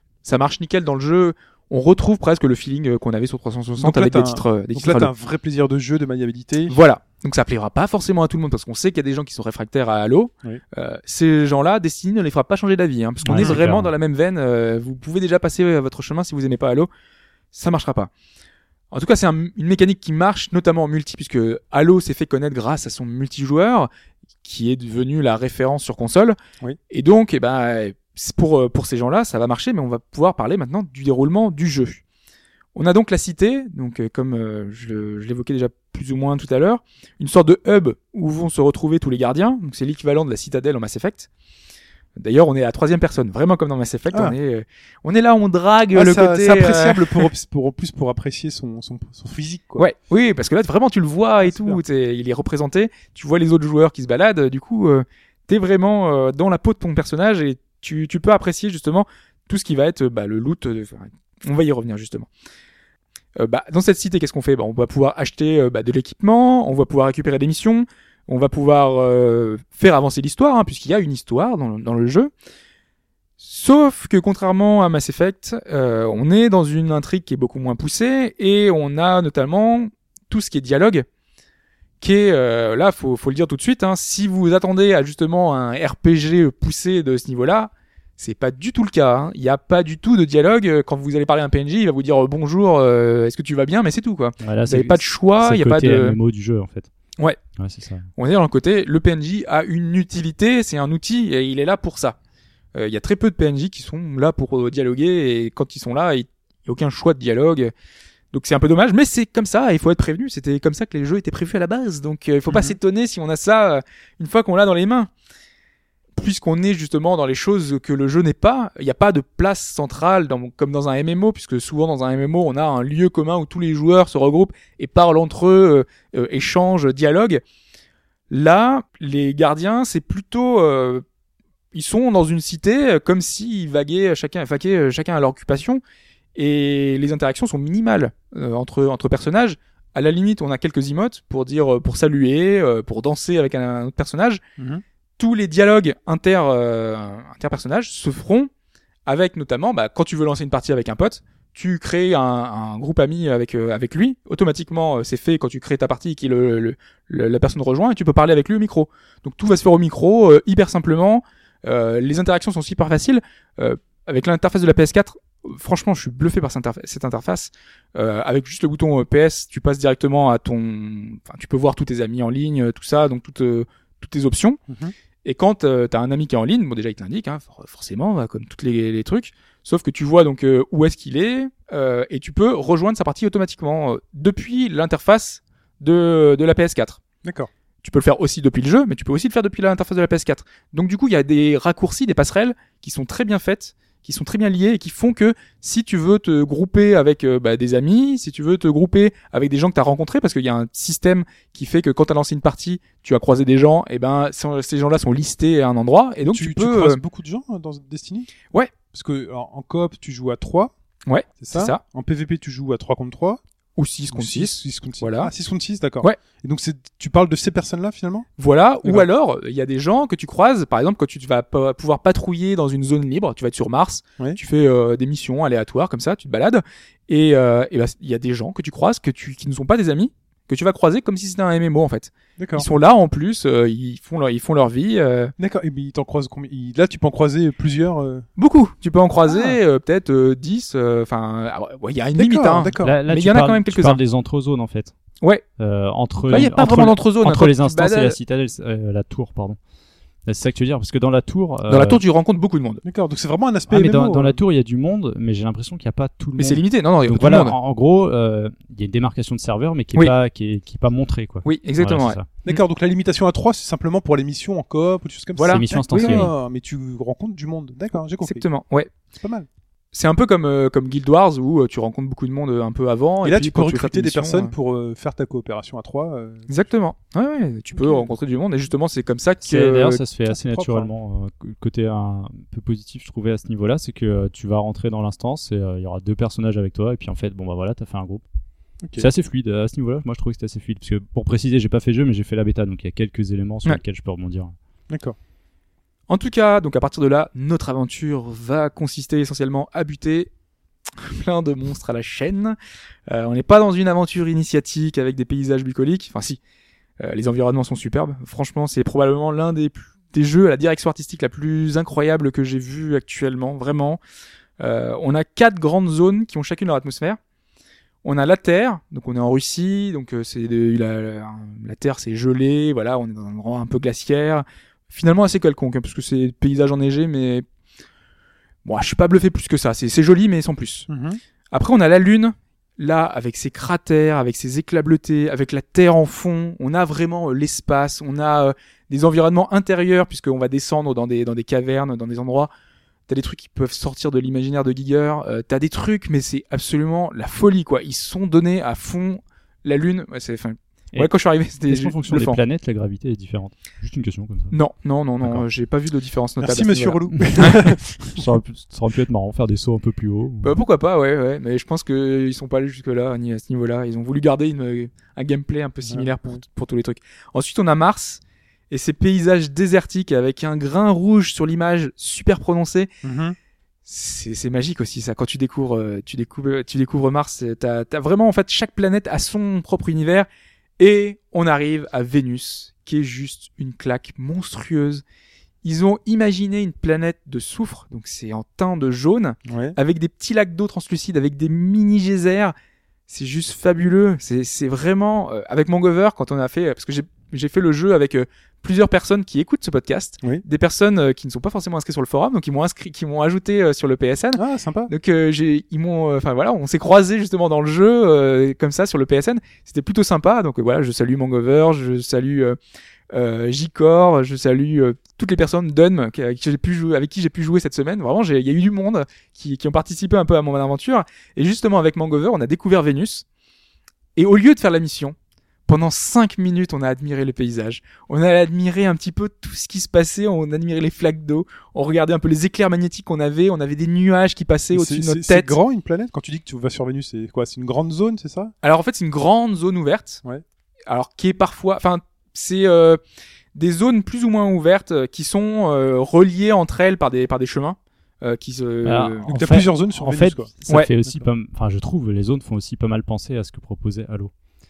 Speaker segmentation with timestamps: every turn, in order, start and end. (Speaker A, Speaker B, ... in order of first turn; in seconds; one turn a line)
Speaker A: 0.2-5.1
Speaker B: 3.8-6.8
Speaker A: 6.7-16.9
Speaker C: 13.2-13.9
Speaker B: 13.3-13.6
Speaker A: 17.5-18.1
Speaker A: 18.9-23.9
Speaker A: 24.4-26.4
Speaker A: 26.9-32.0
Speaker A: 32.8-41.3
Speaker A: 42.2-47.3
Speaker B: 45.9-49.9
Speaker A: 49.8-62.3
Speaker B: 51.4-51.8
Speaker A: 63.4-72.3
Speaker A: 73.4-81.1
Speaker A: 82.0-96.2
Speaker C: 94.4-96.9
Speaker C: 97.6-98.1
Speaker A: 98.2-102.2
Speaker A: 102.7-107.7
Speaker A: 108.3-115.1
Speaker B: 112.5-112.8
Speaker A: 116.2-127.4
Speaker A: 128.3-131.0
Speaker A: 131.7-135.8
Speaker A: 136.4-144.4
Speaker B: 144.6-144.8
Speaker A: 145.2-148.5
Speaker A: 149.1-174.6
Speaker B: 174.7-174.9
Speaker A: 175.2-187.0
Speaker B: 187.2-187.5
Speaker A: 187.8-207.0
Speaker B: 206.3-208.3
Speaker B: 208.9-210.7
Speaker A: 211.1-211.8
Speaker B: 211.4-213.4
Speaker A: 213.8-215.3
Speaker B: 214.1-218.3
Speaker A: 218.4-235.3
Speaker B: 232.4-232.7
Speaker B: 235.4-238.3
Speaker A: 238.4-244.0
Speaker B: 239.3-239.6
Speaker B: 242.2-243.0
Speaker C: 242.8-244.9
Speaker C: 245.6-249.6
Speaker B: 246.3-246.6
Speaker A: 246.3-248.2
Speaker C: 250.3-252.0
Speaker A: 251.7-252.8
Speaker B: 252.8-254.4
Speaker C: 253.7-262.3
Speaker A: 256.4-257.6
Speaker A: 261.4-262.6
Speaker B: 262.5-268.5
Speaker A: 265.4-266.3
Speaker C: 265.5-266.3
Speaker A: 268.2-268.9
Speaker B: 269.1-269.5
Speaker A: 269.9-274.5
Speaker B: 273.2-276.5
Speaker A: 276.5-280.0
Speaker B: 277.7-278.1
Speaker C: 279.4-288.2
Speaker B: 280.3-280.9
Speaker C: 289.0-294.5
Speaker B: 294.9-295.2
Speaker A: 296.1-300.3
Speaker A: 301.0-302.6
Speaker A: 303.1-306.4
Speaker A: 307.0-314.0
Speaker A: 314.6-317.2
Speaker A: 318.0-327.5
Speaker A: 328.6-330.9
Speaker B: 330.9-331.2
Speaker A: 331.5-342.5
Speaker A: 343.1-352.4
Speaker C: 351.7-354.6
Speaker A: 354.5-357.6
Speaker B: 356.4-358.2
Speaker C: 357.4-360.6
Speaker A: 360.4-372.9
Speaker B: 365.8-366.4
Speaker B: 373.0-373.4
Speaker A: 373.9-380.3
Speaker A: 380.8-385.0
Speaker A: 385.6-392.5
Speaker B: 389.5-389.8
Speaker A: 393.1-412.6
Speaker B: 404.4-404.9
Speaker A: 413.1-423.2
Speaker A: 424.2-425.2
Speaker A: 425.7-435.6
Speaker B: 434.7-438.5
Speaker A: 438.6-440.2
Speaker A: 440.9-443.0
Speaker A: 443.6-449.3
Speaker C: 448.9-454.3
Speaker B: 449.3-450.5